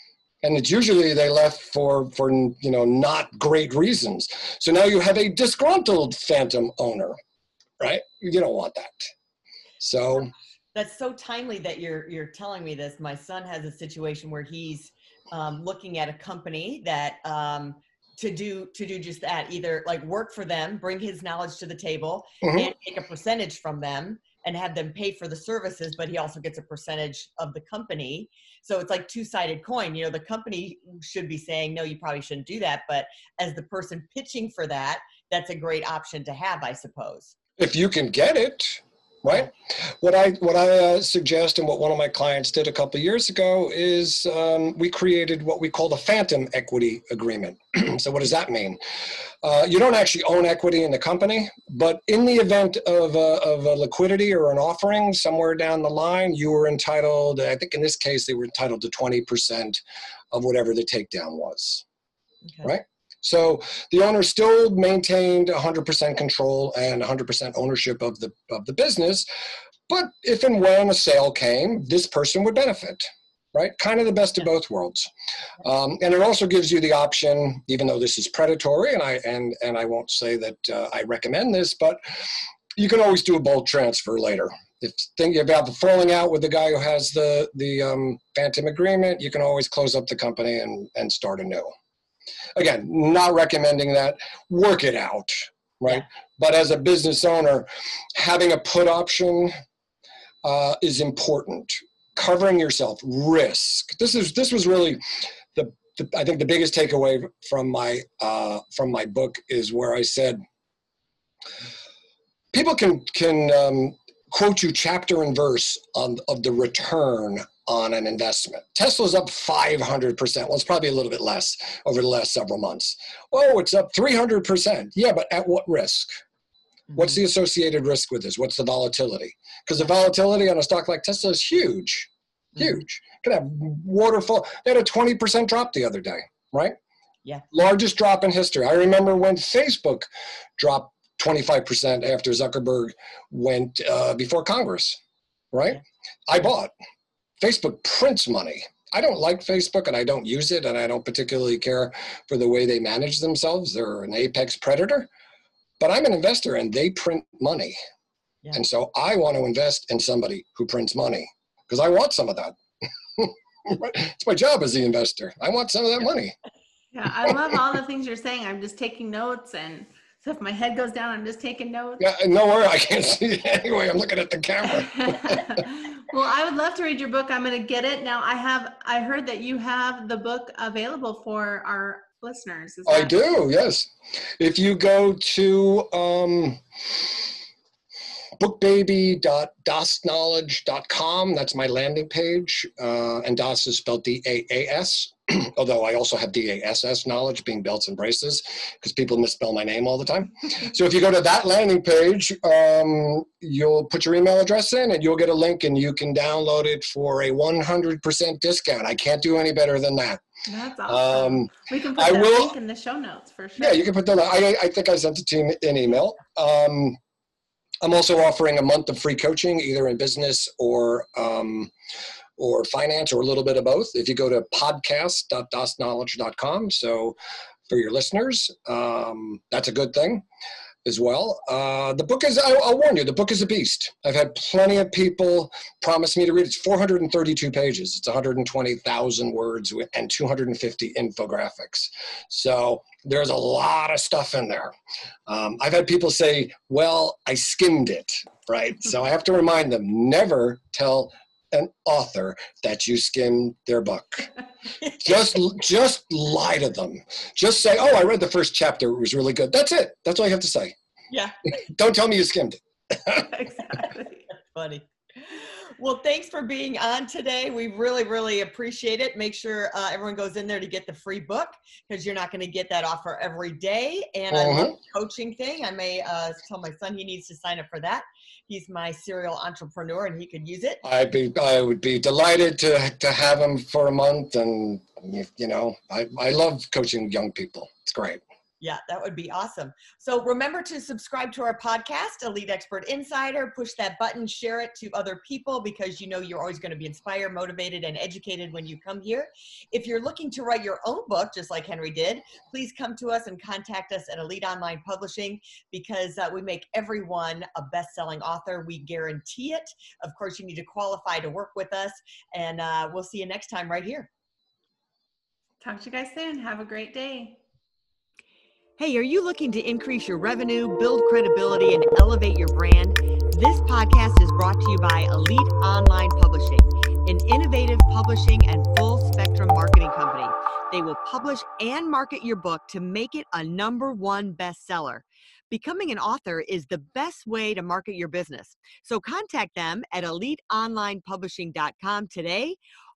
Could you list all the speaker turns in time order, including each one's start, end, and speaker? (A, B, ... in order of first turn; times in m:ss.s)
0:00.4-0:07.2 A
0:07.8-0:09.1 A
0:09.8-0:10.3 A
0:10.7-0:37.3 B
0:22.4-0:22.7 A
0:37.6-0:48.8 A
0:49.4-0:59.8 A
1:00.3-1:01.8 A
1:02.6-1:09.3 A
1:09.9-1:15.1 A
1:15.6-1:22.0 A
1:22.8-1:31.7 A
1:32.5-1:39.5 A
1:40.4-1:45.0 A
1:45.5-1:50.4 A
1:52.5-2:06.1 A
2:06.9-2:16.8 A
2:17.5-2:25.0 A
2:25.5-2:26.7 A
2:27.4-2:35.1 A
2:35.8-2:37.8 A
2:38.5-2:42.6 A
2:43.2-2:46.3 A
2:46.9-2:52.0 C
2:52.0-2:55.6 A
2:55.0-3:03.1 C
3:02.8-3:06.6 A
3:08.4-3:30.2 A
3:30.5-3:33.8 C
3:30.8-3:32.5 A
3:33.6-3:37.0 A
3:37.8-3:41.7 A
3:42.4-3:50.2 A
3:50.8-4:04.7 A
4:05.3-4:14.3 A
4:14.8-4:20.7 A
4:21.1-4:21.4 B
4:21.7-4:23.3 A
4:23.1-4:24.3 C
4:24.5-4:40.8 B
4:34.3-4:34.8 A
4:40.8-4:48.2 A
4:48.6-5:14.1 B
5:15.6-5:17.4 C
5:18.8-5:42.6 B